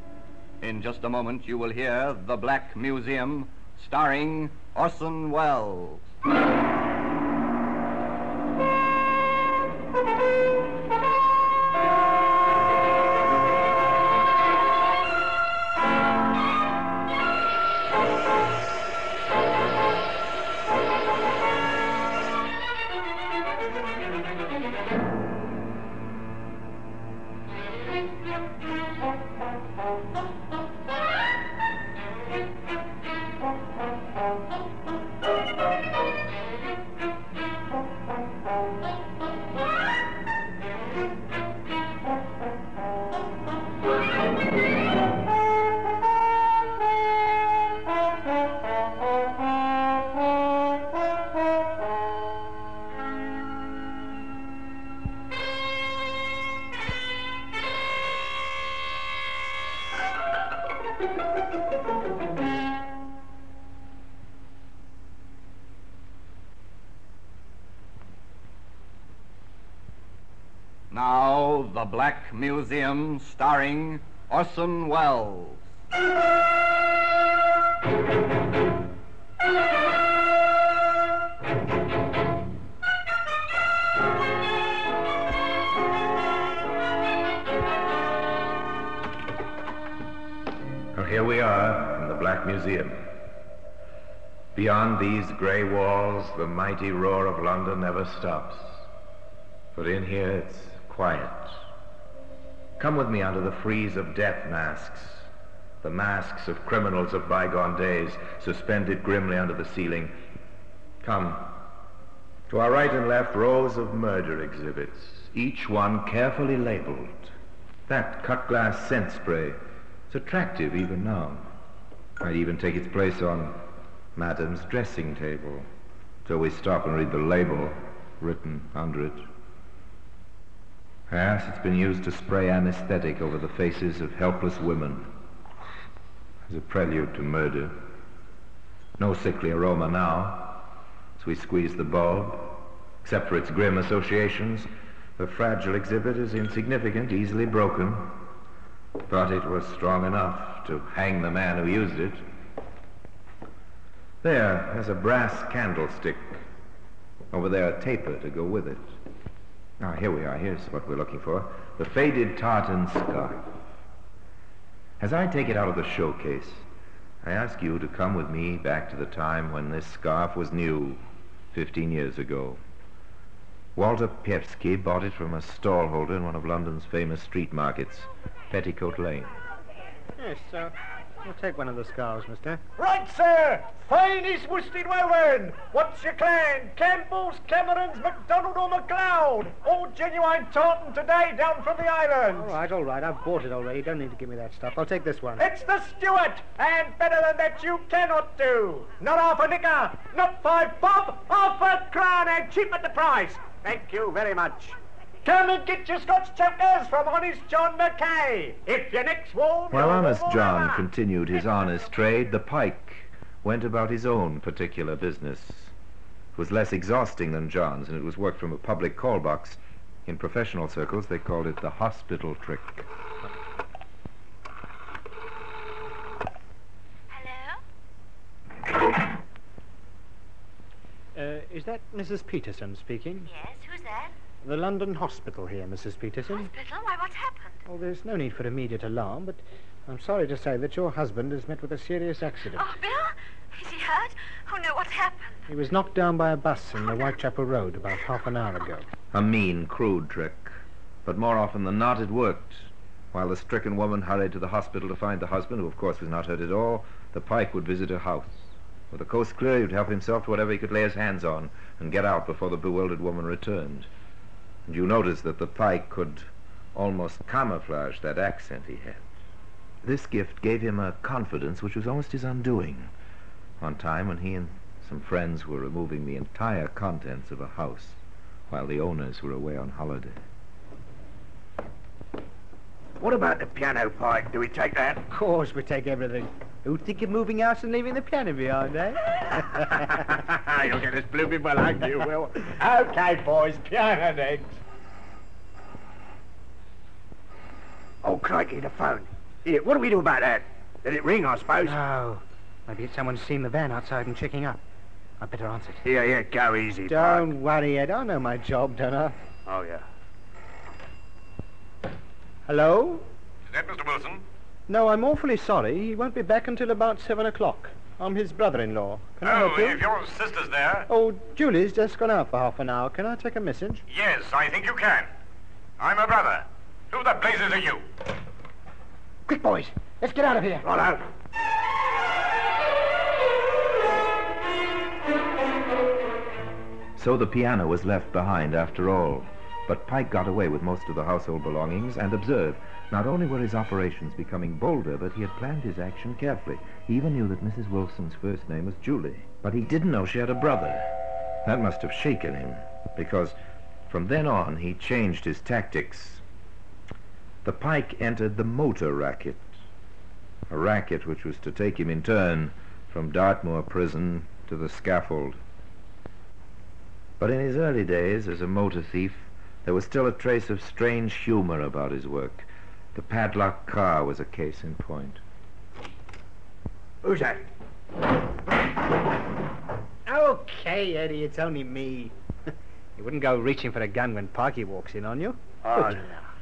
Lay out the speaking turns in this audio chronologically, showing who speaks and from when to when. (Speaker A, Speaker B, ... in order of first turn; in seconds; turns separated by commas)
Speaker A: 0.6-6.0, Speaker A: 70.9-75.7, Speaker B: 90.9-93.1, Speaker B: 94.5-98.8, Speaker B: 99.7-101.6, Speaker B: 102.8-105.3, Speaker B: 105.8-110.2, Speaker B: 111.0-111.6, Speaker B: 112.5-117.3, Speaker B: 117.9-119.6, Speaker B: 120.1-121.5, Speaker B: 122.2-125.7, Speaker B: 126.2-129.3, Speaker B: 131.1-135.1, Speaker B: 136.5-137.9, Speaker B: 139.0-148.3, Speaker B: 149.1-152.2, Speaker B: 154.2-156.4, Speaker B: 157.3-158.9, Speaker B: 159.8-163.4, Speaker B: 165.0-166.7, Speaker B: 167.2-172.6, Speaker B: 173.8-179.3, Speaker C: 180.2-182.6, Speaker D: 182.8-192.5, Speaker C: 192.3-195.5, Speaker D: 195.4-204.7, Speaker C: 204.4-204.7, Speaker D: 205.2-210.9, Speaker B: 209.7-215.7, Speaker B: 216.3-222.9, Speaker E: 227.1-227.6, Speaker C: 231.2-233.3, Speaker E: 233.2-234.1, Speaker C: 234.4-236.5, Speaker E: 236.3-237.6, Speaker C: 237.7-242.8, Speaker E: 242.5-245.4, Speaker C: 245.5-248.9, Speaker B: 249.1-263.9, Speaker B: 264.7-269.1, Speaker B: 269.8-272.9, Speaker B: 273.6-280.2, Speaker D: 283.0-285.1, Speaker C: 285.1-290.0, Speaker D: 289.9-294.6, Speaker D: 298.0-301.8, Speaker C: 301.6-304.6, Speaker C: 305.2-305.9, Speaker D: 305.9-307.3, Speaker C: 306.9-309.2, Speaker D: 309.5-309.9, Speaker C: 312.5-313.1, Speaker F: 313.5-314.2, Speaker C: 314.7-319.9, Speaker F: 319.2-320.9, Speaker C: 320.9-323.9, Speaker F: 323.9-325.1, Speaker F: 325.8-327.9, Speaker C: 329.3-330.7, Speaker D: 330.6-331.0, Speaker B: 337.0-353.4, Speaker B: 353.9-356.2, Speaker B: 357.4-359.5, Speaker B: 360.5-365.4, Speaker B: 367.2-375.2, Speaker D: 377.0-377.4, Speaker C: 380.1-382.1, Speaker C: 383.0-386.3, Speaker D: 385.6-386.1